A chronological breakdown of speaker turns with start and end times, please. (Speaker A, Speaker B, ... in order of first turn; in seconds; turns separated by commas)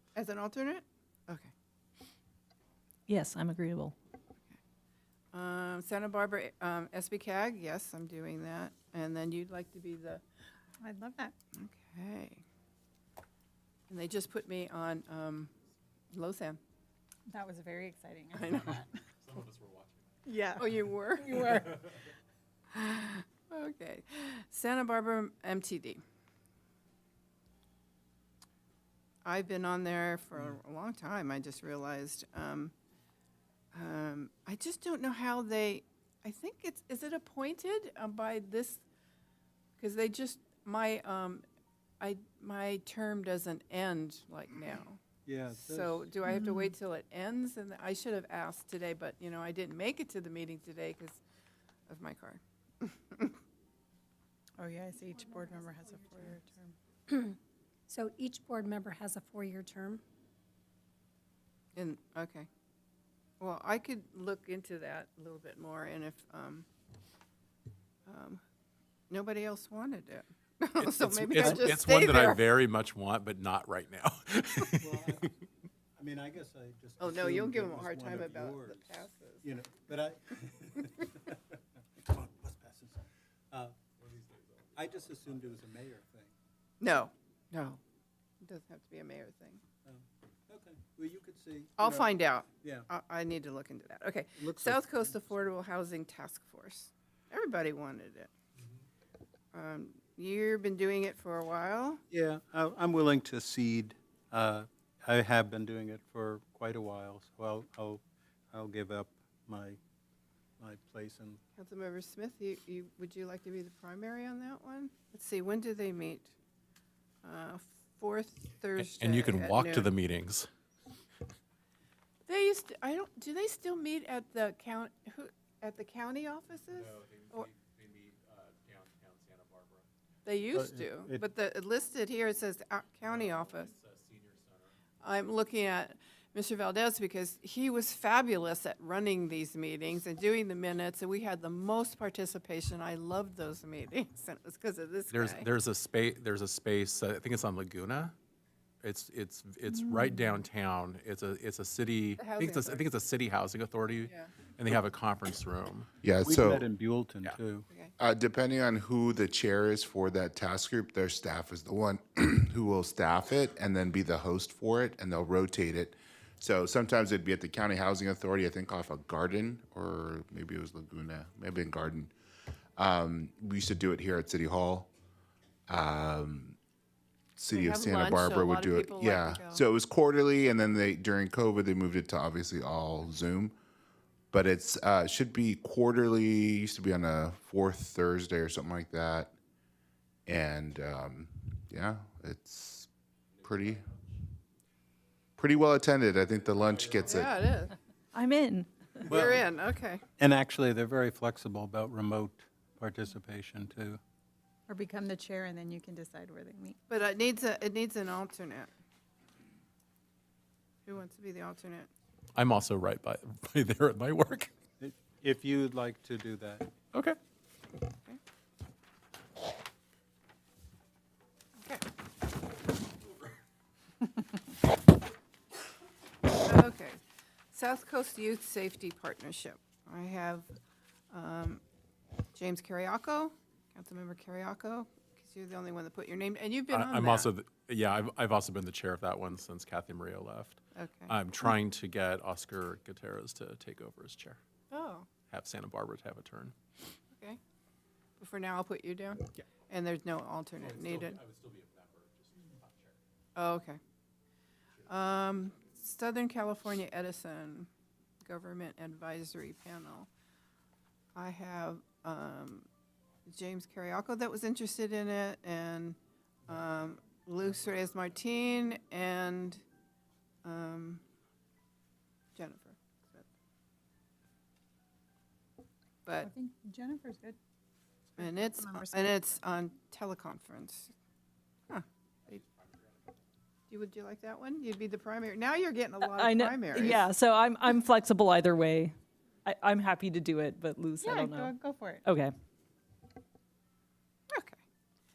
Speaker A: 0.1-1.5, Speaker B: 3.1-3.9, Speaker A: 5.3-10.2, Speaker C: 10.8-11.3, Speaker A: 11.6-12.4, Speaker A: 13.9-15.5, Speaker A: 16.1-16.6, Speaker C: 17.3-18.5, Speaker A: 18.3-18.8, Speaker D: 18.5-20.1, Speaker C: 20.2-20.6, Speaker A: 20.6-21.8, Speaker C: 21.2-21.6, Speaker D: 21.4-21.9, Speaker A: 22.7-26.0, Speaker A: 29.2-32.7, Speaker A: 33.7-38.8, Speaker A: 39.8-41.4, Speaker A: 42.0-45.0, Speaker E: 45.2-46.0, Speaker A: 45.6-51.2, Speaker A: 51.9-53.4, Speaker C: 54.6-56.7, Speaker F: 54.9-56.3, Speaker F: 57.1-57.4, Speaker F: 57.9-60.0, Speaker A: 61.8-62.5, Speaker A: 63.4-66.7, Speaker A: 68.1-68.4, Speaker A: 69.1-72.4, Speaker D: 70.8-75.3, Speaker E: 74.8-75.3, Speaker E: 76.0-78.9, Speaker A: 77.0-79.5, Speaker E: 79.4-83.8, Speaker D: 84.0-85.6, Speaker E: 84.8-86.3, Speaker A: 86.8-87.8, Speaker A: 88.4-89.6, Speaker E: 89.8-92.1, Speaker A: 91.8-98.3, Speaker E: 92.6-92.9, Speaker E: 94.4-94.8, Speaker A: 99.5-102.0, Speaker E: 102.1-109.8, Speaker E: 110.6-111.4, Speaker A: 111.5-116.3, Speaker A: 117.2-119.9, Speaker D: 118.8-120.5, Speaker A: 122.3-127.5, Speaker D: 126.7-129.9, Speaker A: 130.2-133.7, Speaker E: 130.5-131.2, Speaker D: 133.0-134.7, Speaker A: 135.0-145.5, Speaker D: 145.1-148.1, Speaker D: 148.8-155.9, Speaker A: 152.2-152.8, Speaker A: 154.1-154.3, Speaker G: 156.0-156.7, Speaker E: 156.2-157.7, Speaker G: 158.0-172.1, Speaker G: 172.8-174.9, Speaker G: 175.7-176.6, Speaker G: 177.4-183.5, Speaker A: 177.5-179.6, Speaker G: 184.3-189.3, Speaker G: 190.2-192.9, Speaker D: 193.3-194.1, Speaker G: 193.4-193.8, Speaker G: 195.4-197.3, Speaker D: 196.4-197.3, Speaker A: 197.0-197.7, Speaker B: 198.1-199.0, Speaker A: 199.0-200.0, Speaker E: 199.1-199.4, Speaker E: 200.2-204.0, Speaker C: 204.7-206.8, Speaker A: 206.9-208.7, Speaker A: 210.8-211.9, Speaker D: 212.3-214.5, Speaker E: 214.8-216.7, Speaker A: 226.4-227.0, Speaker A: 227.5-230.5, Speaker A: 231.1-231.6, Speaker A: 232.3-237.3, Speaker D: 236.7-244.4, Speaker A: 240.7-241.1, Speaker A: 244.7-245.1, Speaker D: 245.3-246.5, Speaker A: 248.2-251.2, Speaker D: 250.6-253.0, Speaker A: 253.3-253.8, Speaker A: 254.9-257.7, Speaker A: 258.2-260.1, Speaker A: 261.1-262.7, Speaker A: 263.3-266.0, Speaker A: 266.5-269.6, Speaker A: 270.4-271.0, Speaker A: 272.4-273.2, Speaker A: 276.0-276.3, Speaker C: 276.2-277.4, Speaker A: 278.2-280.9, Speaker C: 278.2-279.0, Speaker D: 282.2-283.1, Speaker A: 283.7-287.1, Speaker B: 286.0-291.5, Speaker C: 291.0-292.0, Speaker B: 292.1-292.3, Speaker A: 294.3-294.6